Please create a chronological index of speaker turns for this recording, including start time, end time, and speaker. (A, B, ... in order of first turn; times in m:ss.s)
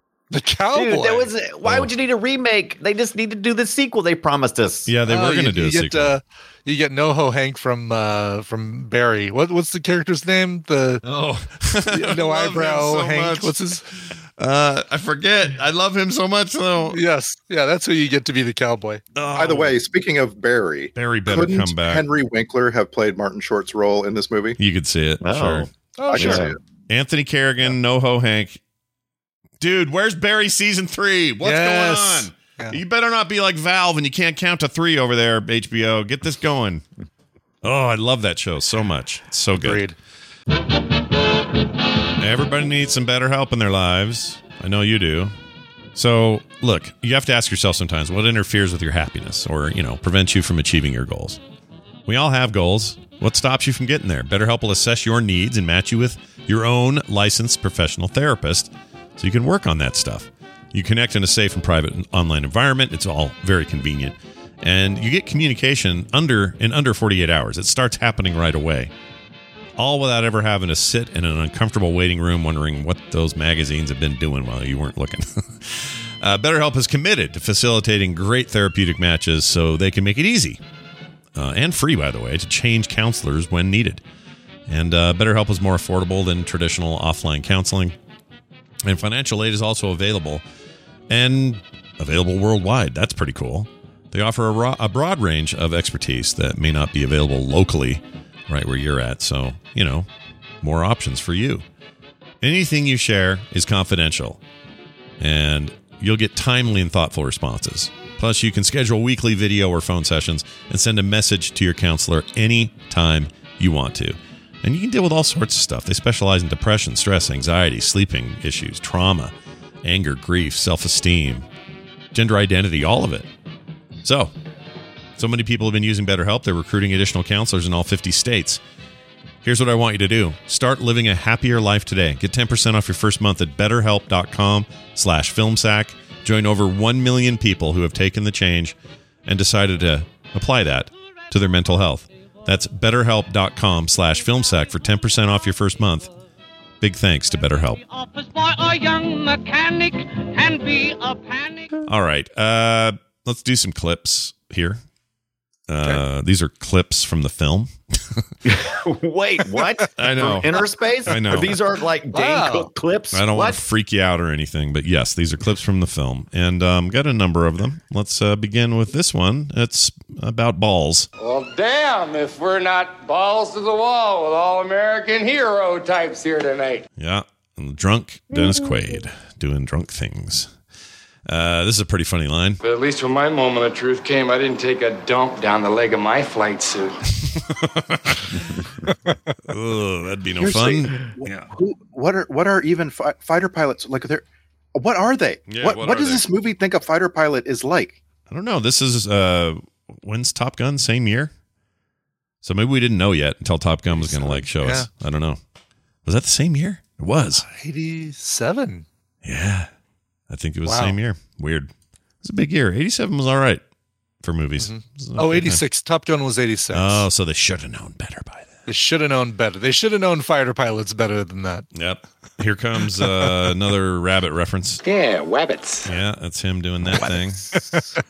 0:00.3-0:01.3 A
0:00.7-0:04.9 B
0:04.9-0:06.2 C
0:05.1-0:11.0 A
0:11.0-0:13.5 C
0:11.9-0:13.8 A
0:14.1-0:17.0 C
0:16.9-0:19.0 A
0:19.1-0:19.8 C
0:19.3-0:24.6 D
0:20.9-0:22.0 C
0:24.6-0:25.7 C
0:25.2-0:26.6 B
0:26.0-0:26.5 A
0:26.1-0:26.6 D
0:26.9-0:28.6 C
0:29.6-0:36.8 C
0:31.4-0:32.8 A
0:37.6-0:39.8 C
0:39.6-0:39.9 A
0:42.2-0:45.3 C
0:45.9-0:51.4 C
0:52.1-1:08.9 C
1:09.8-1:20.6 C
1:21.3-1:24.0 C
1:24.7-1:28.0 C
1:28.8-1:30.4 C
1:31.1-1:40.1 C
1:40.6-1:41.6 C
1:42.4-1:44.4 C
1:45.2-2:01.4 C
2:02.1-2:03.3 C
2:04.0-2:04.3 C
2:05.2-2:08.6 C
2:09.4-2:26.1 C
2:26.8-2:27.8 C
2:27.7-2:31.7 E
2:31.8-2:34.8 C
2:35.7-2:38.2 C
2:38.4-2:43.6 B
2:40.0-2:41.6 C
2:42.1-2:42.7 A
2:43.1-2:51.1 C
2:51.2-2:56.8 F
2:57.0-3:00.5 C
3:01.3-3:02.6 C
3:02.6-3:07.0 F
3:07.2-3:08.4 C
3:09.5-3:11.5 C
3:10.4-3:18.0 D
3:15.5-3:16.2 C
3:18.3-3:21.3 C
3:22.4-3:25.4 C
3:23.9-3:24.9 A
3:26.0-3:27.4 C
3:27.4-3:28.8 A
3:29.2-3:29.7 C
3:30.3-3:31.7 C
3:30.6-3:31.0 A
3:32.2-3:33.6 C
3:34.2-3:35.6 C
3:34.6-3:37.0 A
3:36.7-3:38.6 C
3:38.7-3:41.7 A
3:41.7-3:44.8 C
3:44.8-3:45.1 F
3:45.8-3:47.6 C
3:47.5-3:47.8 A